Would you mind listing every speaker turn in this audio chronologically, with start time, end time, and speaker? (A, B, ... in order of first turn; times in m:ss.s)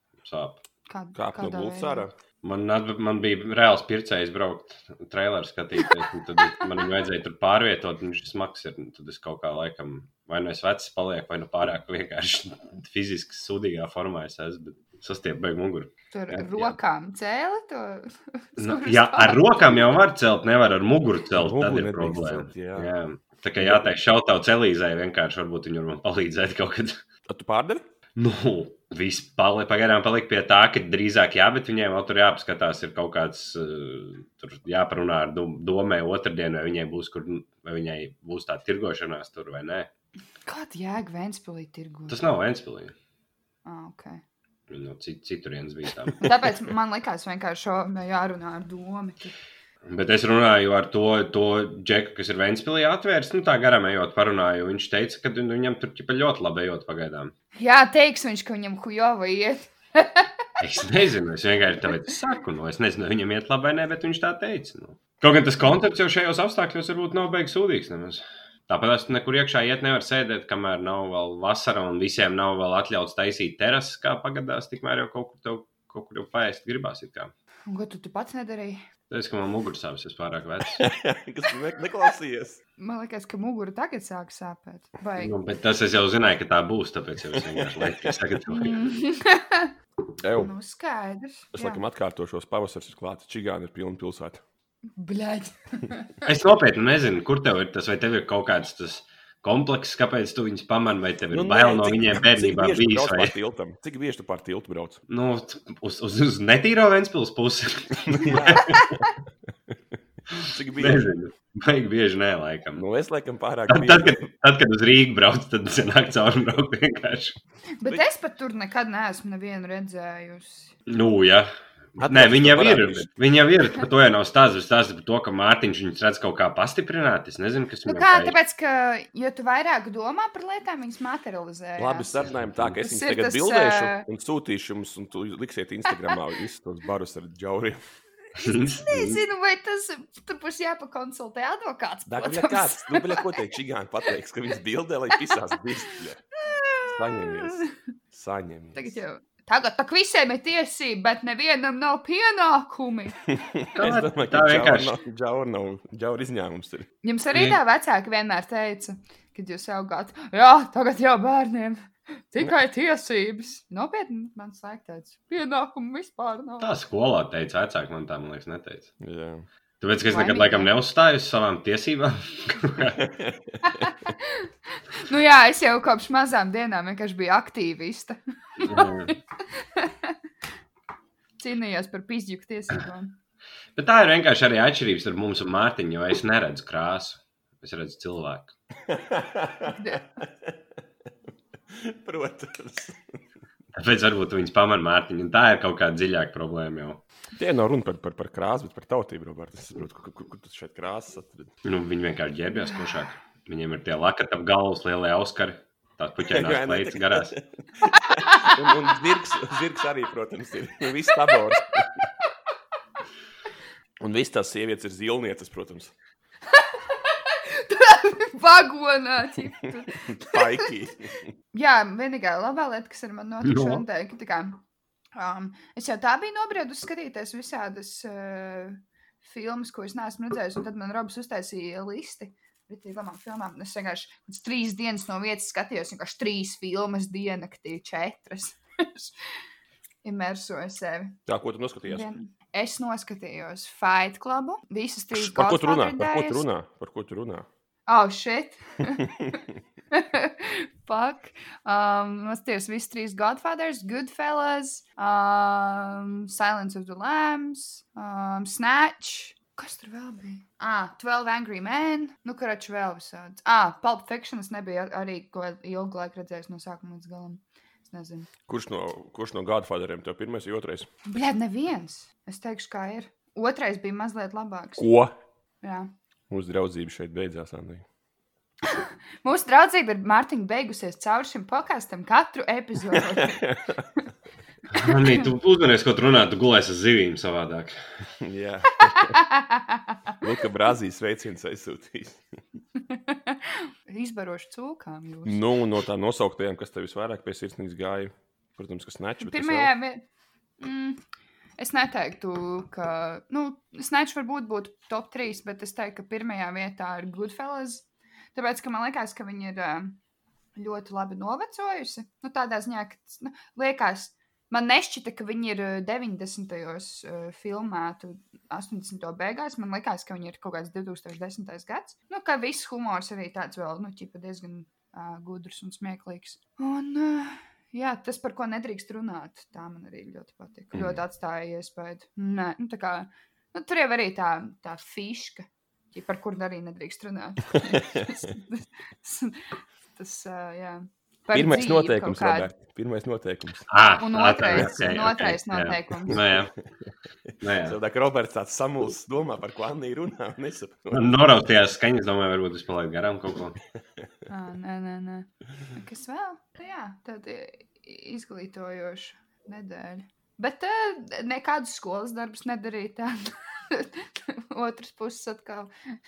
0:00.2-0:00.6 A
0:00.9-0:02.0 B
0:01.1-0:02.1 C
0:02.4-0:16.8 A
0:06.4-0:06.7 B
0:16.1-0:19.8 B
0:18.6-0:27.0 A
0:21.3-0:22.9 C
0:23.6-0:23.9 C
0:27.3-0:27.8 C
0:28.2-0:39.9 A
0:40.4-0:42.2 B
0:42.1-0:42.9 A
0:43.6-0:44.2 B
0:44.7-0:46.3 A
0:46.2-0:49.3 B
0:49.8-0:57.3 A
0:57.6-1:00.4 B
1:00.6-1:17.3 A
1:17.7-1:18.8 B
1:19.1-1:20.8 A
1:20.8-1:22.6 C
1:22.8-1:25.3 B
1:25.2-1:28.9 A
1:27.3-1:28.1 C
1:28.5-1:29.7 B
1:30.2-1:30.5 C
1:30.4-1:31.8 B
1:31.5-1:34.4 C
1:35.0-1:36.2 B
1:36.2-1:43.3 A
1:41.3-1:45.0 C
1:45.1-1:48.8 A
1:48.0-1:49.0 C
1:50.4-1:51.1 C
1:50.8-1:52.8 A
1:52.7-1:54.3 C
1:53.7-1:57.4 A
1:57.8-2:00.7 B
2:00.9-2:01.5 A
2:02.0-2:03.1 C
2:02.0-2:08.4 A
2:07.9-2:12.3 B
2:11.8-2:17.8 C
2:12.8-2:14.0 B
2:18.4-2:19.2 A
2:18.4-2:23.4 B
2:22.1-2:26.2 C
2:26.4-2:27.7 B
2:26.8-2:29.0 C
2:28.8-2:33.3 B
2:33.3-2:36.9 C
2:33.8-2:35.0 A
2:37.0-2:46.7 B
2:37.3-2:37.6 A
2:46.6-2:48.9 A
2:49.0-2:49.4 C
2:49.8-2:53.0 A
2:50.1-2:50.7 B
2:53.0-2:53.8 C
2:53.6-3:00.2 B
2:58.6-2:59.1 A
3:01.4-3:03.1 B
3:03.7-3:08.5 A
3:08.9-3:10.6 C
3:09.7-3:10.1 B
3:11.7-3:13.2 C
3:13.7-3:17.0 A
3:17.4-3:21.5 C
3:21.6-3:27.3 A
3:26.3-3:32.1 C
3:28.1-3:28.6 B
3:34.0-3:35.9 C
3:36.5-3:40.7 B
3:40.0-3:41.3 C
3:41.5-3:44.6 B
3:43.4-3:43.8 A
3:45.1-3:59.1 B
4:00.0-4:01.2 B
4:01.3-4:02.1 C
4:01.8-4:06.4 B
4:05.1-4:07.4 C
4:07.9-4:09.4 B
4:09.0-4:09.4 C
4:09.9-4:28.3 B
4:28.5-4:30.9 C
4:31.1-4:34.8 B
4:34.8-4:35.1 C
4:35.6-4:35.9 B
4:36.3-4:37.8 C
4:38.6-4:43.5 B
4:42.9-4:43.9 C
4:44.7-4:47.8 A
4:44.8-4:45.3 B
4:48.2-4:49.2 C
4:48.8-4:50.2 B
4:50.2-4:52.2 C
4:52.9-4:55.4 B
4:55.2-4:59.7 C
4:59.2-5:00.0 B
5:00.6-5:01.0 B
5:01.6-5:10.0 B
5:10.6-5:39.4 B
5:37.5-5:38.3 C
5:40.0-5:42.5 B
5:41.3-5:43.7 C
5:43.7-5:46.5 A
5:44.0-5:46.2 B
5:47.4-5:47.8 A
5:47.6-5:51.1 C
5:50.9-5:53.6 A
5:54.3-6:05.7 B